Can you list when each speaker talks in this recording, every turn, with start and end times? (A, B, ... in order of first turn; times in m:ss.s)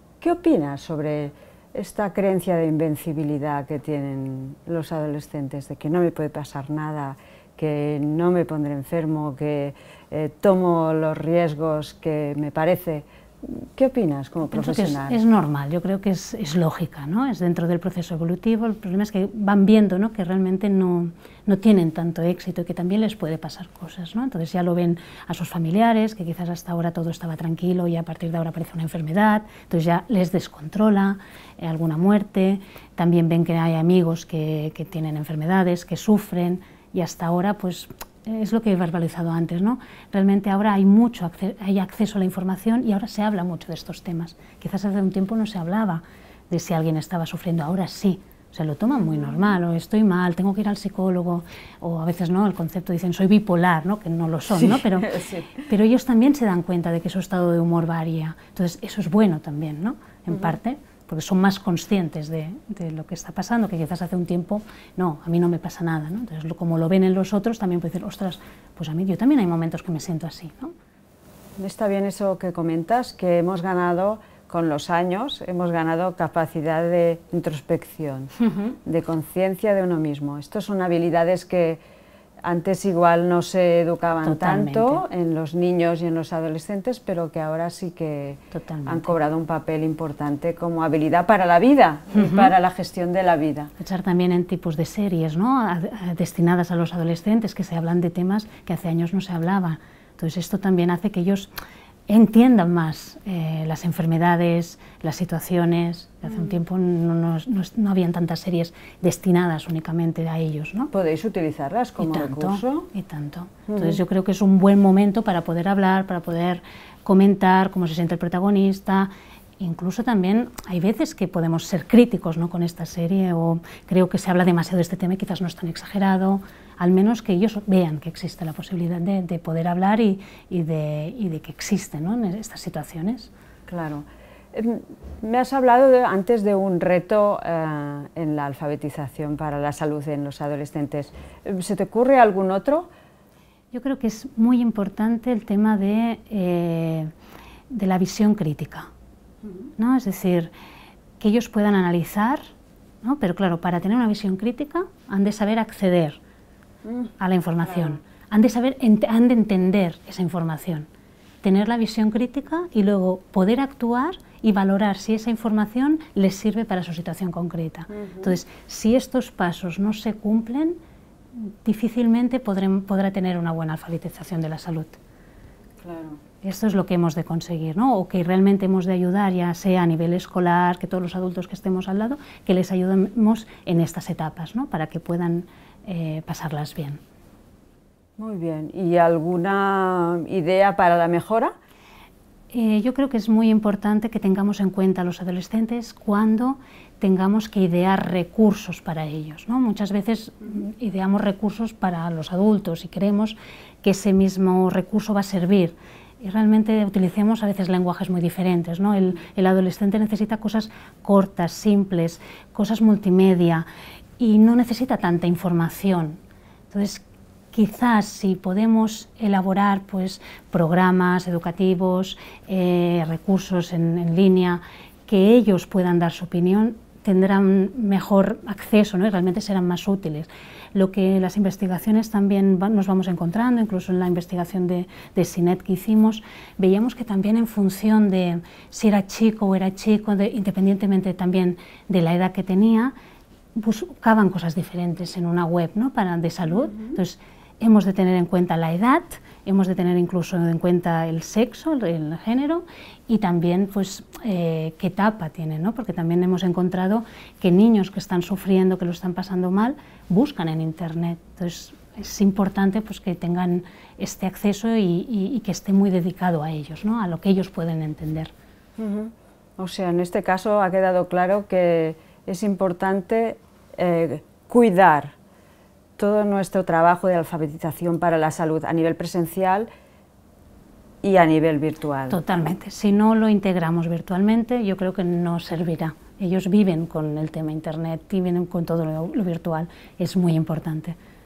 0:00.2-0:15.2 A
0:14.4-1:10.7 B
0:48.9-0:49.5 A
0:54.5-0:55.6 A
1:00.3-1:00.6 A
1:11.6-1:21.8 A
1:22.4-1:33.7 A
1:24.2-1:25.0 B
1:28.5-1:29.1 B
1:32.1-1:32.5 B
1:33.8-1:41.5 B
1:42.1-1:50.9 B
1:50.9-1:52.9 A
1:52.0-2:13.3 B
1:53.7-1:54.0 A
2:13.7-2:22.9 A
2:23.7-2:27.1 B
2:27.7-2:28.9 B
2:29.8-2:30.5 B
2:31.2-2:32.4 B
2:33.0-2:36.2 B
2:36.8-2:38.0 A
2:37.2-2:40.9 B
2:41.4-2:50.7 B
2:47.9-2:48.4 A
2:51.4-2:55.0 B
2:55.8-2:56.2 A
2:56.4-3:07.0 B
3:08.2-3:11.5 A
3:12.5-3:33.6 B
3:34.2-3:36.2 B
3:36.7-4:02.9 B
4:03.5-4:28.3 B
4:28.8-4:35.1 A
4:36.0-4:39.7 A
4:41.0-4:42.2 A
4:42.1-4:51.0 B